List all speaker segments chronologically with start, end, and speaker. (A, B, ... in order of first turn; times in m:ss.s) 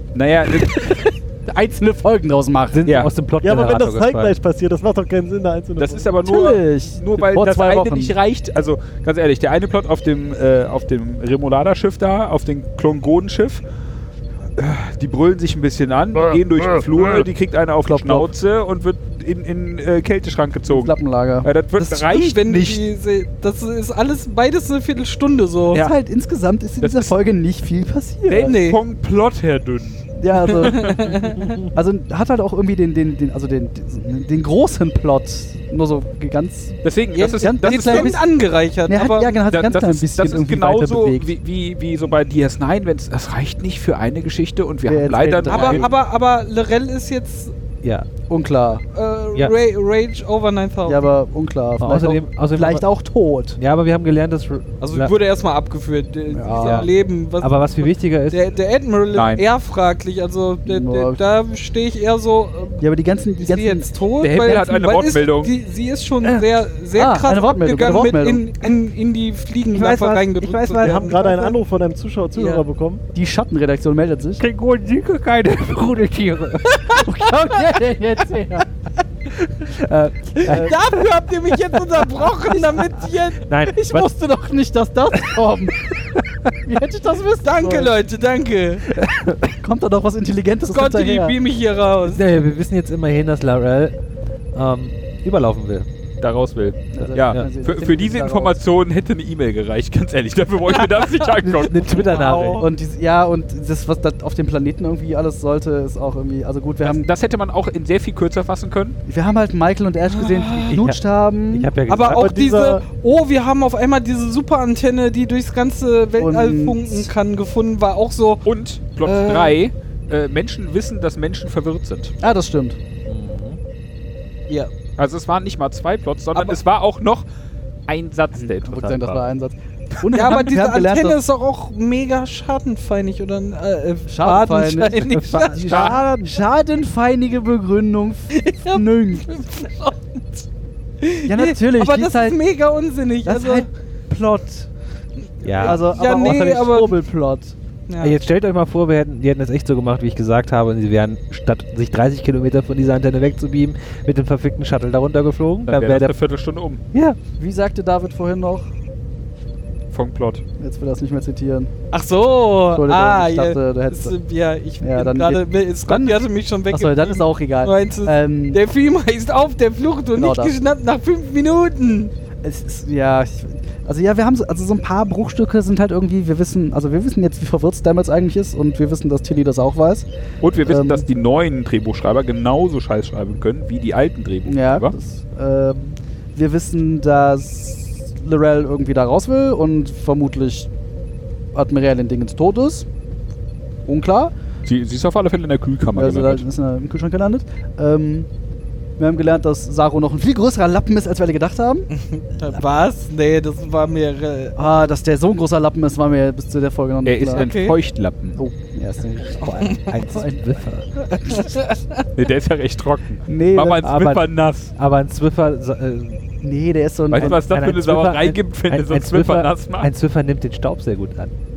0:00.1-0:01.0 A
0:00.5-0:02.9 B
0:02.7-0:04.4 C
0:02.8-0:03.1 A
0:03.4-0:06.1 D
0:05.8-0:13.6 A
0:06.2-0:08.1 B
0:14.6-0:22.8 A
0:17.8-0:18.3 B
0:20.7-0:21.5 B
0:21.8-0:25.8 E
0:25.8-0:28.6 B
0:26.8-0:27.1 A
0:28.2-0:30.1 A
0:28.4-0:28.8 E
0:30.2-0:36.8 B
0:30.5-0:31.6 E
0:30.6-0:31.0 A
0:36.8-0:38.1 A
0:37.1-0:39.4 E
0:37.4-0:38.3 B
0:38.9-0:41.3 B
0:39.5-0:45.9 A
0:44.8-0:45.9 B
0:45.5-0:47.5 E
0:47.8-0:48.1 C
0:48.3-0:48.8 B
0:48.9-0:51.0 E
0:50.8-0:53.6 B
0:51.8-0:52.8 C
0:53.6-0:55.1 C
0:54.8-1:02.8 E
0:56.3-0:56.9 B
0:57.4-0:58.5 C
0:59.1-0:59.4 A
1:00.6-1:01.2 B
1:02.8-1:04.8 B
1:03.4-1:11.2 E
1:04.2-1:05.5 A
1:06.2-1:08.4 B
1:09.7-1:11.6 B
1:10.8-1:13.0 D
1:12.3-1:12.6 E
1:13.1-1:14.4 B
1:14.4-1:17.0 C
1:16.9-1:18.7 B
1:19.6-1:20.9 B
1:20.4-1:23.4 E
1:20.4-1:20.7 C
1:23.4-1:24.1 C
1:23.7-1:26.0 B
1:25.9-1:26.5 C
1:26.6-1:28.0 B
1:27.4-1:28.9 E
1:28.9-1:29.4 C
1:29.5-1:31.3 B
1:30.6-1:32.3 E
1:32.0-1:34.0 C
1:34.5-1:35.9 C
1:36.2-1:41.9 A
1:36.9-1:38.6 B
1:41.4-1:42.6 C
1:42.1-1:47.1 B
1:42.1-1:42.6 E
1:46.8-1:49.0 A
1:49.1-1:51.7 B
1:50.1-1:50.7 E
1:50.7-1:52.2 C
1:51.9-1:58.4 E
1:52.1-1:52.8 D
1:56.2-1:57.1 B
1:58.4-2:02.1 A
1:59.0-1:59.6 E
2:02.2-2:02.8 B
2:03.1-2:03.6 C
2:05.0-2:07.3 A
2:07.9-2:09.2 A
2:08.4-2:11.2 B
2:10.1-2:16.0 E
2:14.1-2:19.3 B
2:15.2-2:16.4 C
2:15.7-2:16.0 A
2:18.3-2:20.4 E
2:21.0-2:23.7 E
2:21.2-2:22.4 B
2:23.2-2:24.7 B
2:25.4-2:25.8 C
2:25.5-2:27.0 E
2:25.6-2:27.5 B
2:27.9-2:28.2 E
2:28.0-2:36.1 C
2:35.7-2:36.8 A
2:36.9-2:37.2 C
2:37.4-2:38.7 B
2:39.9-2:40.4 A
2:40.6-2:41.7 B
2:41.9-2:52.1 E
2:42.7-2:44.2 B
2:44.8-2:48.6 B
2:50.2-2:50.5 B
2:52.4-3:00.0 B
3:00.4-3:04.9 A
3:00.6-3:01.0 B
3:04.4-3:10.7 B
3:11.5-3:12.9 B
3:13.8-3:14.3 B
3:14.6-3:16.4 A
3:15.9-3:18.3 B
3:19.0-3:21.9 B
3:22.0-3:24.9 E
3:24.6-3:27.5 B
3:27.0-3:28.4 A
3:27.3-3:27.8 E
3:28.4-3:30.7 B
3:29.4-3:30.9 C
3:29.5-3:29.9 E
3:31.1-3:32.0 E
3:32.1-3:34.7 A
3:33.3-3:33.8 B
3:33.8-3:36.2 C
3:36.4-3:37.4 B
3:37.1-3:39.9 A
3:37.1-3:41.3 C